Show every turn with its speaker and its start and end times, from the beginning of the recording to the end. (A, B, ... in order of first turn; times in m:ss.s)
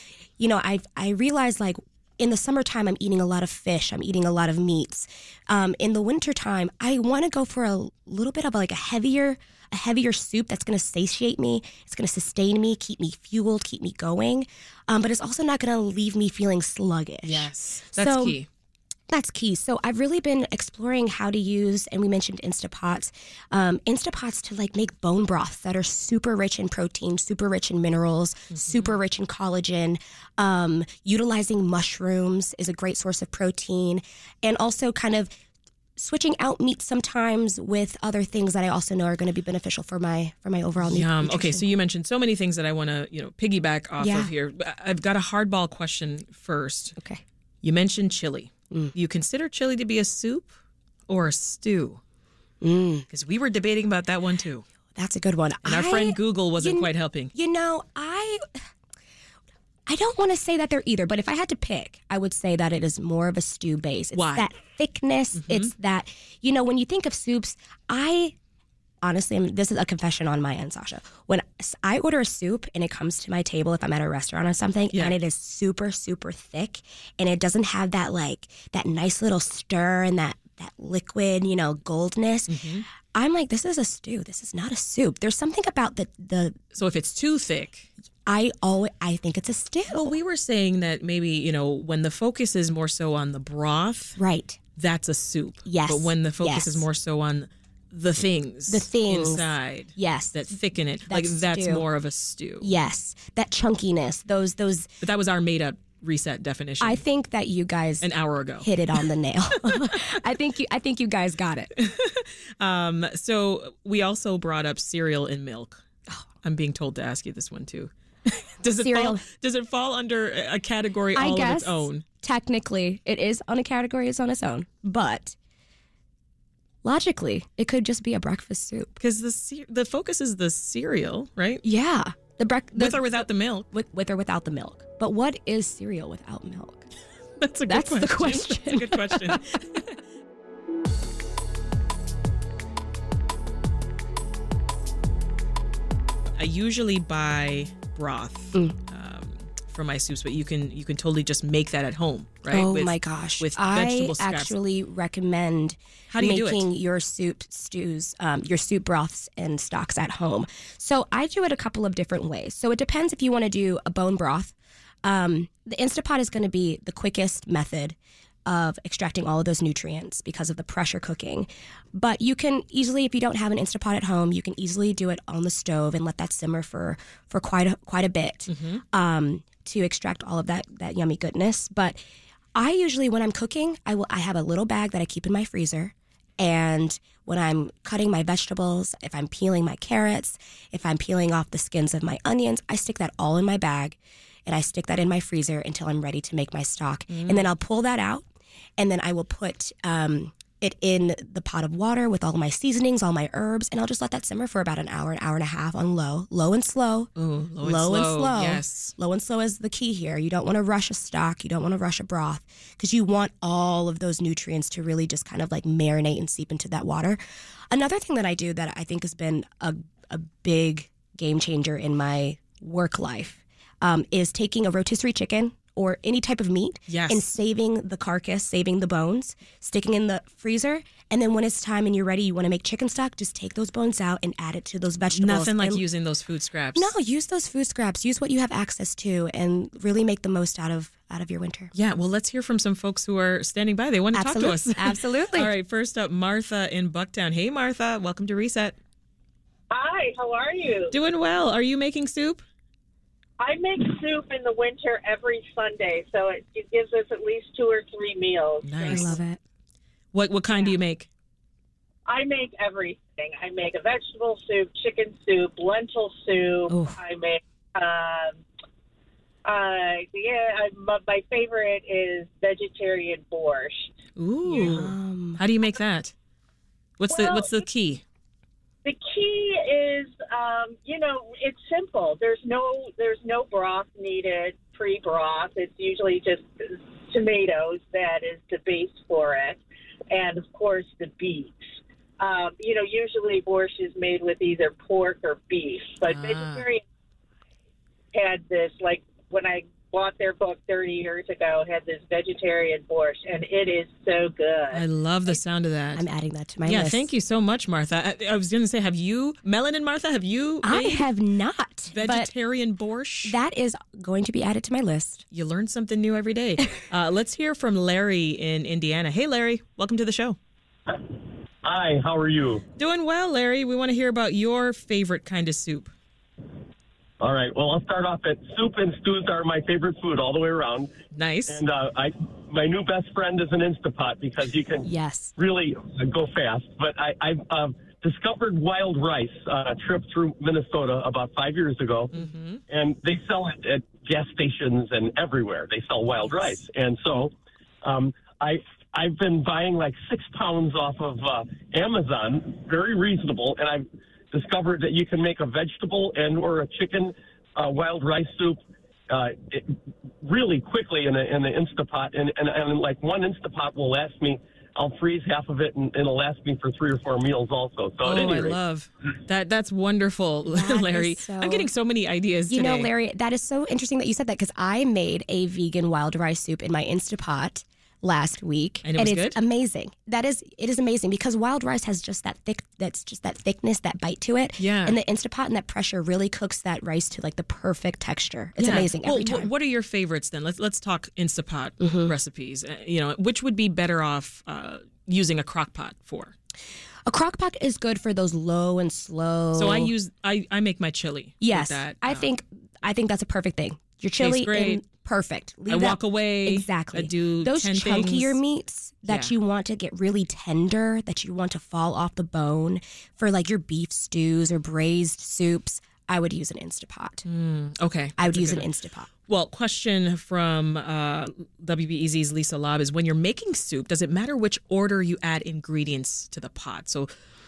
0:00.4-0:18.4 A
0:17.2-0:18.5 B
0:19.1-0:35.3 A
0:28.5-0:28.9 B
0:36.0-0:41.7 A
0:40.8-0:47.0 B
0:44.0-0:44.3 A
0:47.0-0:47.2 A
0:47.6-0:50.6 B
0:51.1-0:52.0 B
0:52.6-0:53.1 A
0:53.1-0:54.6 B
0:55.0-0:58.6 A
0:55.6-0:57.3 B
0:59.9-1:08.4 A
1:04.2-1:04.5 B
1:05.4-1:05.7 B
1:09.0-1:22.6 A
1:22.5-1:22.9 B
1:23.1-1:26.6 A
1:26.7-1:27.9 B
1:28.3-1:30.2 A
1:29.9-1:34.2 B
1:34.2-1:34.6 A
1:34.8-1:42.7 B
1:35.6-1:36.9 A
1:38.7-1:40.5 A
1:41.1-1:41.8 A
1:42.6-1:44.9 A
1:45.0-1:47.0 B
1:46.8-1:48.1 A
1:48.0-1:49.0 B
1:48.6-1:51.7 A
1:51.8-1:55.8 B
1:56.4-2:02.0 B
1:58.8-1:59.2 A
2:01.1-2:05.4 A
2:06.8-2:09.0 A
2:09.0-2:11.6 B
2:11.6-2:16.8 A
2:12.8-2:13.7 B
2:17.4-2:19.8 B
2:17.7-2:19.4 A
2:26.4-2:34.6 B
2:32.5-3:02.0 A
2:36.1-2:36.6 B
2:58.5-2:58.8 B
3:02.6-3:18.2 A
3:17.1-3:17.4 B
3:18.8-3:55.8 A
3:27.2-3:29.0 B
3:46.9-3:47.2 B
3:55.1-3:56.9 B
3:56.8-4:01.7 A
4:01.7-4:08.8 B
4:04.1-4:05.5 A
4:09.7-4:11.0 C
4:10.9-4:12.4 B
4:13.4-4:19.2 C
4:18.6-4:19.2 B
4:18.9-4:19.4 A
4:20.1-4:21.1 B
4:22.1-4:28.4 C
4:26.7-4:27.0 A
4:29.4-4:33.9 C
4:34.2-4:36.1 B
4:34.5-4:35.4 A
4:37.0-4:38.0 B
4:37.1-4:37.6 C
4:38.8-4:51.6 C
4:52.2-4:56.8 C
4:56.0-4:56.6 B
4:58.1-5:04.8 C
5:04.7-5:06.0 B
5:06.0-5:07.1 A
5:06.6-5:11.1 B
5:10.6-5:12.3 A
5:11.9-5:13.4 B
5:13.2-5:15.2 A
5:15.3-5:20.4 B
5:21.6-5:22.6 D
5:22.8-5:25.9 B
5:27.2-5:30.9 D
5:31.1-5:31.6 B
5:31.5-5:42.1 D
5:34.8-5:35.3 A
5:42.1-5:42.6 B
5:42.7-6:08.6 D
6:08.0-6:12.9 B
6:10.5-6:11.7 A
6:12.5-6:29.5 A
6:18.8-6:19.4 B
6:24.6-6:25.0 B
6:28.6-6:36.3 B
6:31.8-6:32.1 A
6:37.1-6:39.9 A
6:39.6-6:42.3 B
6:41.4-6:57.3 A
6:44.2-6:44.8 B
6:45.7-6:48.4 B
6:49.1-6:49.3 B
6:57.2-6:58.7 B
6:58.2-6:59.1 A
6:59.3-7:07.1 B